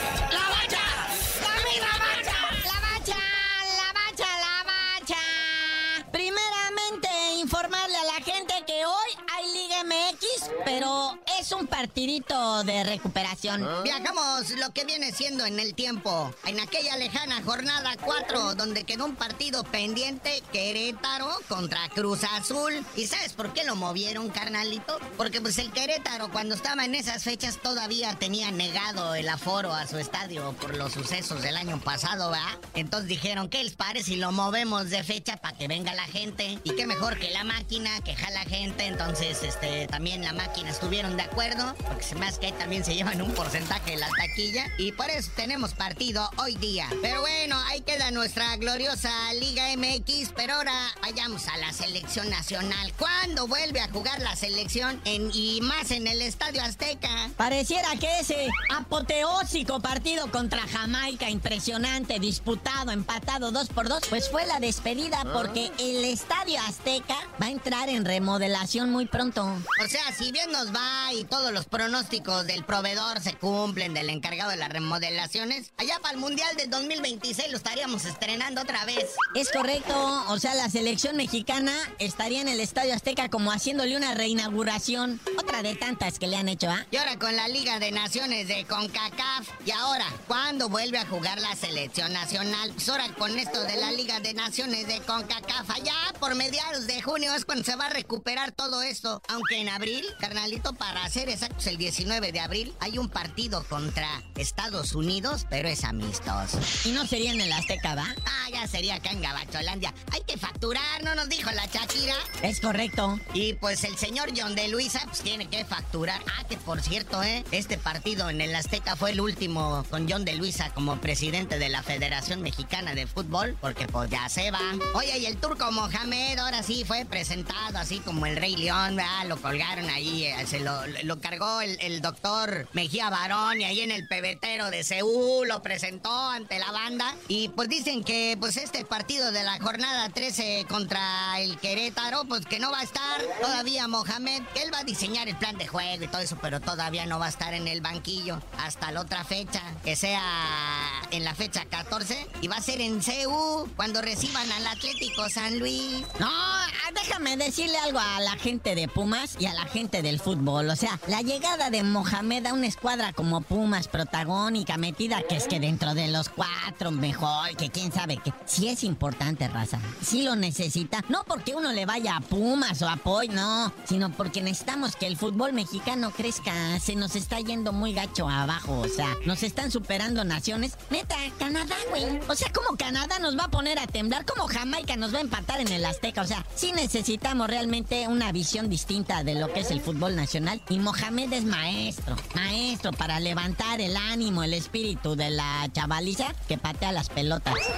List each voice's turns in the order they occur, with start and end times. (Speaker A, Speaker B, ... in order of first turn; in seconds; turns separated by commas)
Speaker A: 0.3-13.8, Speaker B: 13.8-57.3, Speaker A: 57.4-69.7, Speaker B: 69.8-79.2, Speaker A: 79.3-86.8, Speaker B: 86.9-106.6, Speaker A: 106.8-108.2, Speaker B: 108.3-112.2, Speaker A: 112.4-113.2, Speaker B: 113.3-156.1, Speaker A: 156.2-197.7